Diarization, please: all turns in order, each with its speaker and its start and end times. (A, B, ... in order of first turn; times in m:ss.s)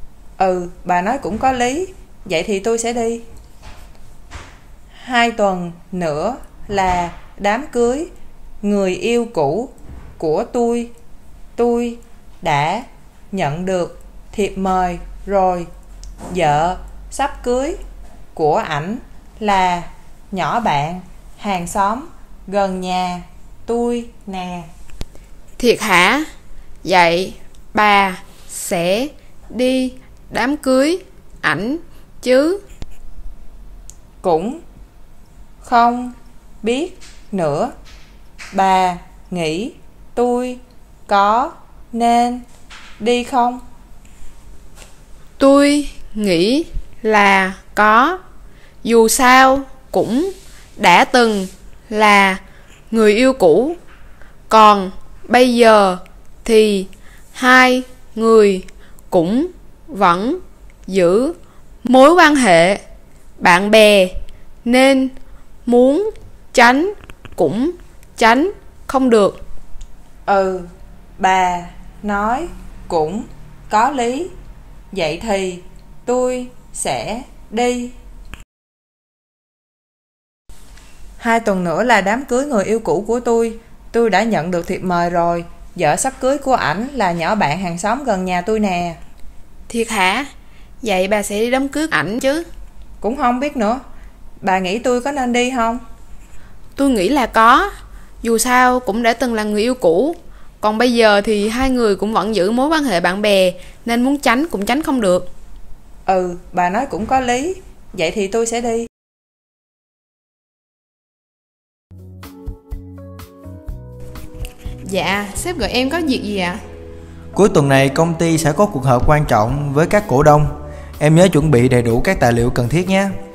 0:00.4-0:03.2 A
0:05.0-0:08.1 A
0:08.6-0:10.9 A
0:11.6-0:15.7 A
0:16.3-0:17.8 A
0:18.3-0:24.7 A
0:25.6-0:26.3 B
0:26.8-0:32.6 B
0:34.2-0:34.6 A
0:35.6-0:37.7 A
0:38.5-0:42.4 A
0:43.0-0:43.6 A
0:45.4-0:48.2 B
0:48.8-0:53.8 B
0:54.5-1:02.8 B
1:03.4-1:04.1 B
1:04.6-1:05.1 B
1:05.6-1:09.4 B
1:10.3-1:10.7 A
1:11.2-1:14.3 A
1:14.9-1:17.9 A
1:21.2-1:29.0 A
1:29.7-1:30.3 B
1:30.8-1:32.4 B
1:33.0-1:33.8 A
1:34.4-1:35.8 A
1:36.8-1:37.7 B
1:38.2-1:45.3 B
1:46.0-1:48.9 A
1:54.8-1:56.6 B
1:57.3-2:03.1 C